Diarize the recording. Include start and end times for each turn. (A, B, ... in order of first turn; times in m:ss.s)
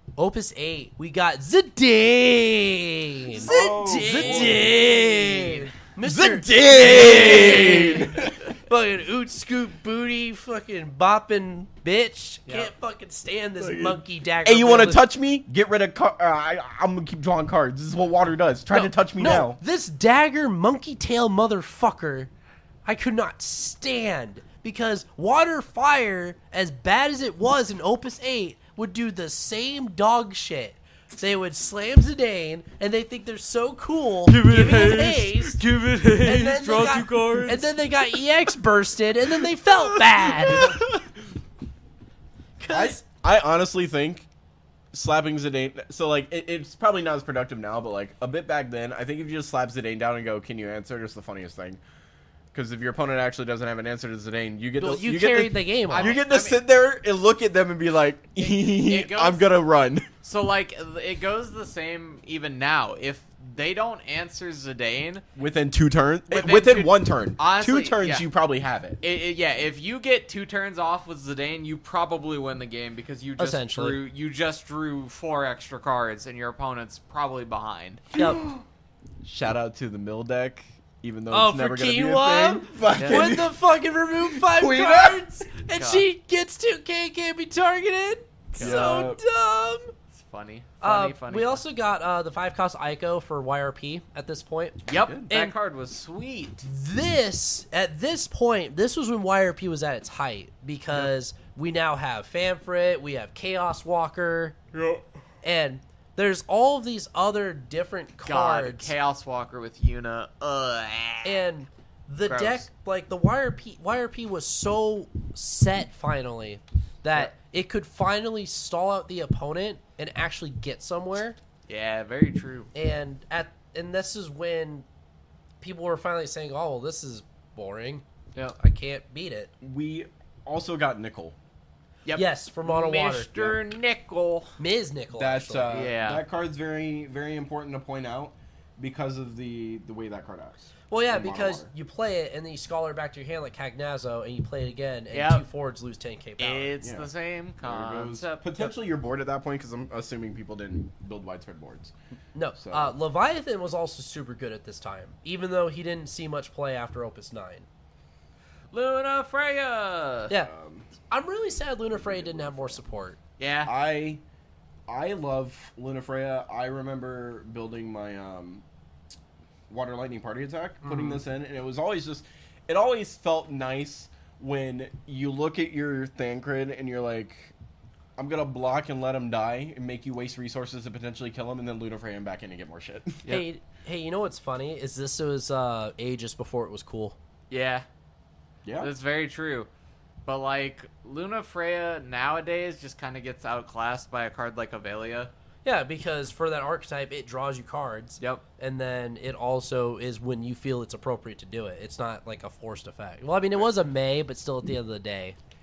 0:00.2-0:15.0 A
0:03.3-0:04.8 B
0:03.4-0:05.4 C
0:06.0-0:08.4 B
0:07.3-0:07.9 C
0:12.5-0:12.7 C
0:13.6-0:19.6 B
0:18.7-0:22.3 A
0:22.8-0:35.6 A
0:34.3-0:37.7 C
0:36.2-0:40.8 A
0:39.9-0:41.0 B
0:42.6-0:43.0 A
0:42.7-0:44.3 B
0:44.9-0:51.8 B
0:52.5-1:00.1 B
0:54.8-0:56.2 A
0:55.9-0:56.6 C
0:58.4-0:59.5 C
1:00.2-1:05.2 C
1:05.4-1:09.0 B
1:06.3-1:08.3 C
1:09.0-1:18.1 C
1:13.4-1:14.0 A
1:18.1-1:18.6 B
1:18.2-1:18.4 A
1:19.2-1:25.4 B
1:21.3-1:29.9 A
1:23.0-1:23.2 C
1:25.7-1:26.0 C
1:28.5-1:29.1 C
1:28.6-1:29.2 B
1:30.1-1:31.6 C
1:30.8-1:35.6 A
1:34.9-1:36.7 C
1:35.0-1:35.3 B
1:36.6-1:44.6 A
1:44.7-1:45.0 B
1:45.4-1:48.9 A
1:48.3-1:51.4 C
1:51.2-2:01.4 A
1:52.3-1:52.6 C
2:01.7-2:02.7 C
2:02.7-2:04.8 A
2:05.6-2:08.0 A
2:08.6-2:09.5 A
2:09.6-2:11.4 B
2:12.0-2:14.5 C
2:12.1-2:13.6 A
2:14.6-2:15.8 A
2:15.2-2:21.7 B
2:15.7-2:16.2 C
2:20.9-2:26.7 A
2:25.1-2:25.4 C
2:26.4-2:28.6 C
2:26.8-2:27.1 B
2:27.6-2:31.9 B
2:32.4-2:37.7 A
2:32.6-2:33.0 B
2:38.7-2:40.3 C
2:40.3-2:40.9 B
2:41.1-2:43.2 A
2:41.9-2:42.8 B
2:43.4-2:43.7 C
2:43.6-2:44.2 B
2:44.9-2:48.6 B
2:49.7-2:57.5 B
2:50.8-2:51.2 A
2:58.2-3:03.2 B
3:03.3-3:07.2 A
3:07.5-3:07.8 C
3:08.6-3:08.9 B
3:08.8-3:09.7 C
3:10.3-3:15.3 C
3:15.6-3:25.4 A